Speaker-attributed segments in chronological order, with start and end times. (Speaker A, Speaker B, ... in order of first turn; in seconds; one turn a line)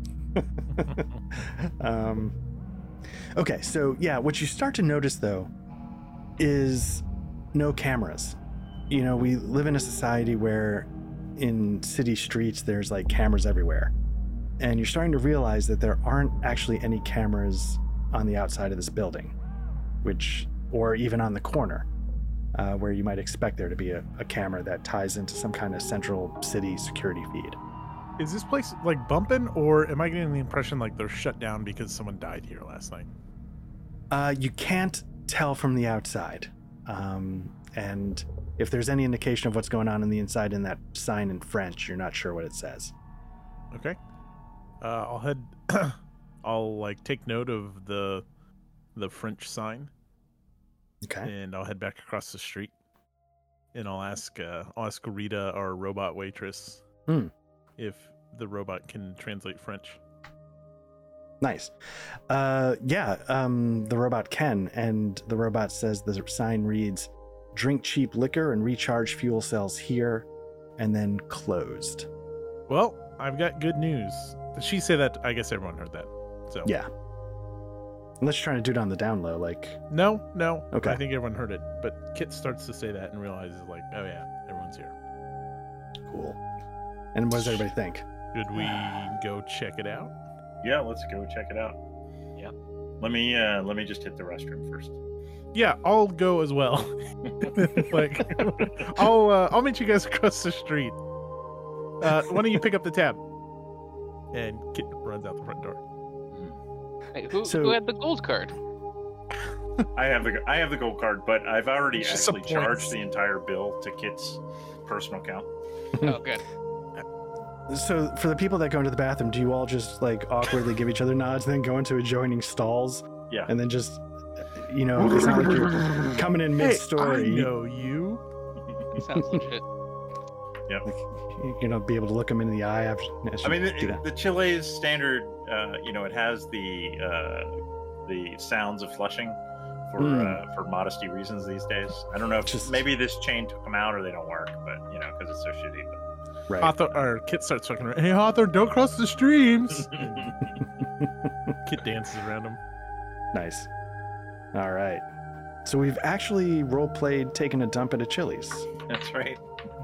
Speaker A: 0.3-2.3
Speaker B: 0.8-1.2
Speaker A: 3.4-5.5
Speaker A: 6.4-8.4
Speaker A: 8.9-13.9
Speaker A: 14.6-19.3
Speaker A: 20.0-21.9
Speaker A: 22.5-27.6
Speaker B: 28.2-33.1
Speaker A: 34.1-42.9
Speaker B: 43.7-44.0
Speaker B: 44.8-48.2
Speaker B: 48.9-49.9
Speaker A: 51.0-51.3
Speaker B: 51.2-52.7
Speaker B: 53.7-56.8
Speaker B: 57.8-60.0
Speaker A: 61.4-61.7
Speaker A: 62.3-70.3
Speaker A: 70.8-72.1
Speaker B: 72.7-76.7
Speaker A: 78.2-79.8
Speaker B: 79.9-84.9
Speaker A: 80.7-81.0
Speaker A: 86.0-86.4
Speaker A: 87.1-89.0
Speaker B: 88.3-90.1
Speaker C: 90.6-91.8
Speaker C: 93.0-95.0
Speaker B: 95.5-101.0
Speaker B: 102.0-103.2
Speaker B: 104.3-105.8
Speaker D: 107.1-108.6
Speaker A: 107.3-107.8
Speaker C: 109.9-115.5
Speaker B: 112.0-112.9
Speaker A: 115.9-116.2
Speaker D: 116.0-116.4
Speaker A: 117.7-127.5
Speaker B: 126.5-128.2
Speaker C: 128.7-129.0
Speaker D: 128.9-129.6
Speaker A: 130.8-134.0
Speaker C: 133.4-137.5
Speaker C: 138.1-139.4
Speaker C: 139.9-146.0
Speaker A: 140.0-140.4
Speaker A: 142.4-142.8
Speaker A: 146.5-146.7
Speaker B: 146.6-150.3
Speaker C: 149.9-150.5
Speaker A: 151.0-151.5
Speaker B: 151.6-152.6
Speaker A: 153.3-153.7
Speaker A: 154.5-155.0
Speaker A: 155.6-158.7
Speaker C: 158.9-159.4